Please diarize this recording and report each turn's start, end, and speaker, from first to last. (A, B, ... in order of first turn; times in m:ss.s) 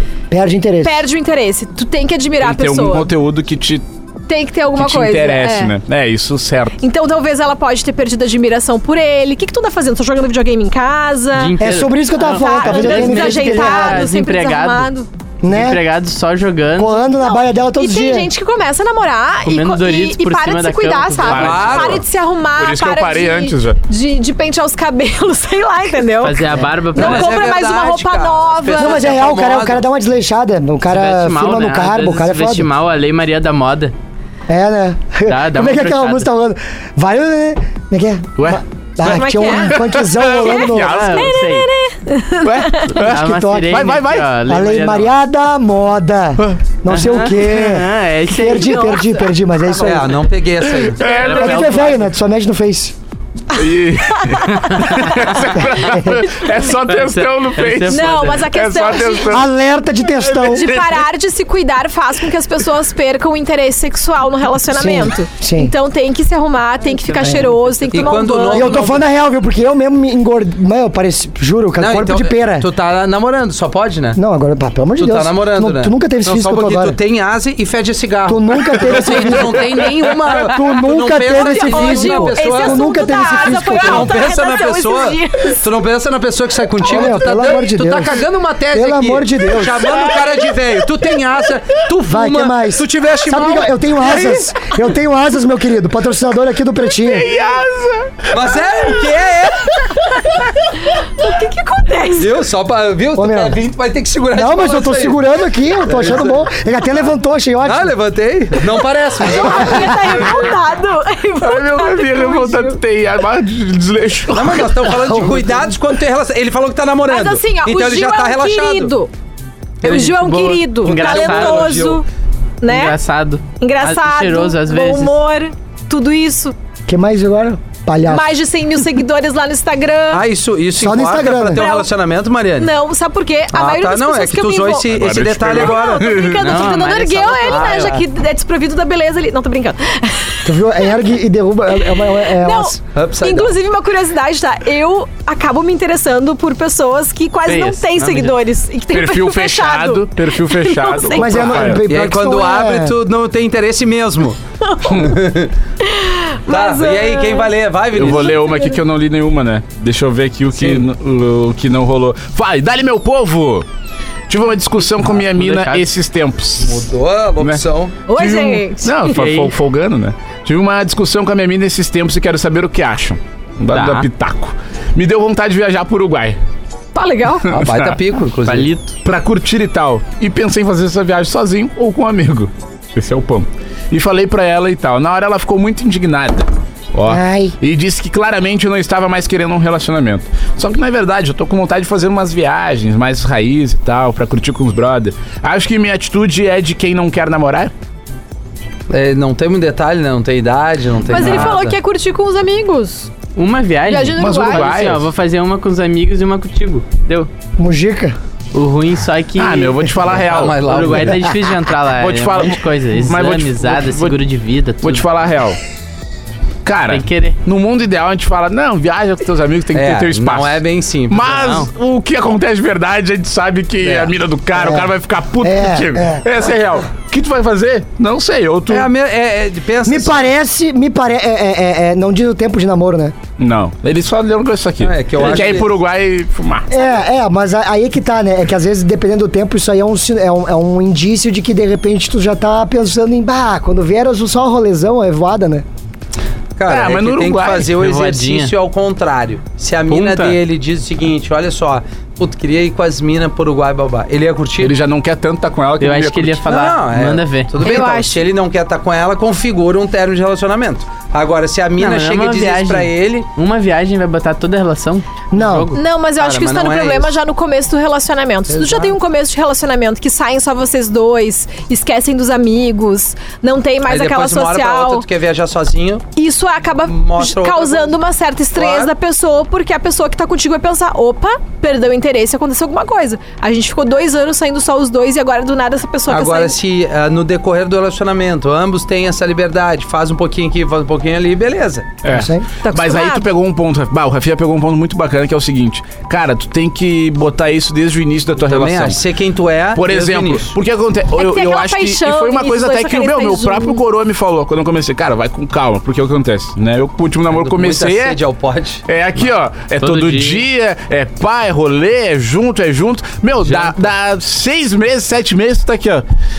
0:00.3-0:01.0 A
0:00.8-0:03.1 B
0:02.4-0:03.8 C
0:04.3-0:05.7 B
0:04.7-0:06.7 C
0:06.8-0:11.5 B
0:11.3-0:14.9 D
0:11.6-0:14.1 A
0:12.2-0:15.1 B
0:15.4-0:15.8 A
0:15.4-0:17.0 D
0:16.8-0:18.3 A
0:17.2-0:29.2 B
0:19.4-0:21.8 D
0:21.2-0:22.0 C
0:21.3-0:22.0 E
0:22.6-0:23.8 C
0:26.2-0:27.4 D
0:26.9-0:29.8 E
0:28.8-0:32.7 A
0:30.9-0:33.9 D
0:34.5-0:41.1 A
0:35.2-0:36.3 D
0:38.4-0:41.4 C
0:39.0-0:39.8 B
0:40.4-0:42.9 B
0:40.7-0:41.7 D
0:42.4-0:44.3 C
0:42.9-0:45.1 D
0:43.0-0:50.2 A
0:46.9-0:49.0 D
0:48.4-0:49.2 B
0:49.7-0:51.2 E
0:50.8-0:51.9 C
0:51.0-0:52.0 D
0:51.4-0:52.9 A
0:53.5-0:59.5 C
0:54.1-0:55.3 B
0:54.7-0:55.2 D
0:56.8-0:58.5 D
0:57.9-0:59.4 B
0:59.3-1:00.7 A
1:00.3-1:01.0 C
1:00.3-1:09.0 B
1:04.7-1:05.7 A
1:07.1-1:08.2 D
1:07.2-1:07.5 A
1:07.9-1:09.0 E
1:08.5-1:12.7 A
1:11.8-1:14.2 E
1:14.2-1:17.0 A
1:15.0-1:34.5 E
1:18.3-1:24.2 A
1:21.3-1:25.6 B
1:26.8-1:30.1 A
1:32.0-1:37.3 A
1:37.0-1:38.4 C
1:38.3-1:39.8 E
1:40.3-1:42.3 B
1:42.2-1:45.2 E
1:43.1-1:43.6 A
1:44.3-1:47.9 A
1:45.8-1:46.5 E
1:47.6-1:50.5 E
1:49.2-1:52.8 B
1:49.5-1:50.1 A
1:51.4-1:55.0 C
1:54.3-1:58.9 E
1:55.0-1:55.6 A
1:57.1-1:59.1 B
1:59.8-2:02.0 B
1:59.8-2:02.0 D
1:59.8-2:00.1 E
2:00.8-2:02.0 E
2:02.6-2:03.0 B
2:02.6-2:05.2 D
2:03.6-2:06.5 B
2:06.9-2:08.4 A
2:08.0-2:10.2 B
2:10.1-2:12.7 E
2:10.8-2:11.6 A
2:11.5-2:11.9 B
2:12.6-2:20.9 B
2:13.5-2:16.1 E
2:14.8-2:16.6 C
2:16.4-2:18.0 D
2:17.4-2:18.0 E
2:20.4-2:22.8 A
2:21.8-2:31.8 B
2:22.9-2:23.6 E
2:27.5-2:28.4 D
2:28.9-2:31.8 C
2:31.2-2:32.9 A
2:31.9-2:34.4 E
2:34.6-2:35.2 B
2:34.9-2:35.5 E
2:35.8-2:38.8 B
2:36.5-2:38.4 E
2:37.9-2:43.6 C
2:44.3-2:46.8 C
2:45.0-2:45.9 D
2:46.6-2:48.0 E
2:48.1-2:49.2 B
2:48.1-2:56.4 C
2:49.1-2:49.5 D
2:53.7-2:54.1 D
2:56.9-2:57.6 B
2:57.5-2:58.7 E
2:57.5-2:57.9 C
2:58.4-2:58.9 D
2:59.0-3:17.7 C
3:07.1-3:07.6 A
3:18.9-3:21.7 E
3:21.1-3:23.1 B
3:21.1-3:21.6 D
3:23.4-3:27.3 D
3:23.9-3:24.7 B
3:24.2-3:25.1 C
3:27.6-3:28.2 A
3:28.5-3:35.1 D
3:29.4-3:31.0 C
3:30.0-3:31.4 E
3:32.0-3:34.2 C
3:34.8-3:35.6 C
3:36.6-3:48.9 C
3:36.9-3:37.4 D
3:39.7-3:41.6 E
3:41.3-3:41.7 D
3:43.8-3:44.1 E
3:44.5-3:44.9 A
3:45.4-3:46.2 A
3:48.7-3:50.3 E
3:49.8-3:53.2 A
3:53.4-3:56.7 C
3:54.8-3:55.8 E
3:56.7-4:05.6 A
4:06.6-4:14.8 E
4:06.7-4:07.7 C
4:07.6-4:08.5 D
4:09.9-4:10.4 D
4:14.6-4:16.4 C
4:15.8-4:17.8 D
4:16.4-4:23.2 E
4:17.6-4:18.3 B
4:21.8-4:25.8 D
4:25.3-4:25.7 A
4:25.7-4:35.0 B
4:26.2-4:27.2 E
4:28.5-4:28.9 E
4:33.9-4:36.0 E
4:36.2-4:46.6 B
4:36.9-4:37.9 E
4:38.5-4:38.9 E
4:46.1-4:52.0 E
4:52.0-4:59.0 C
4:52.1-4:52.4 A
4:52.6-4:53.2 B
4:58.4-5:00.5 E
4:59.7-5:08.2 C
5:01.2-5:03.8 B
5:07.3-5:08.8 E
5:08.8-5:16.0 C
5:09.8-5:10.4 D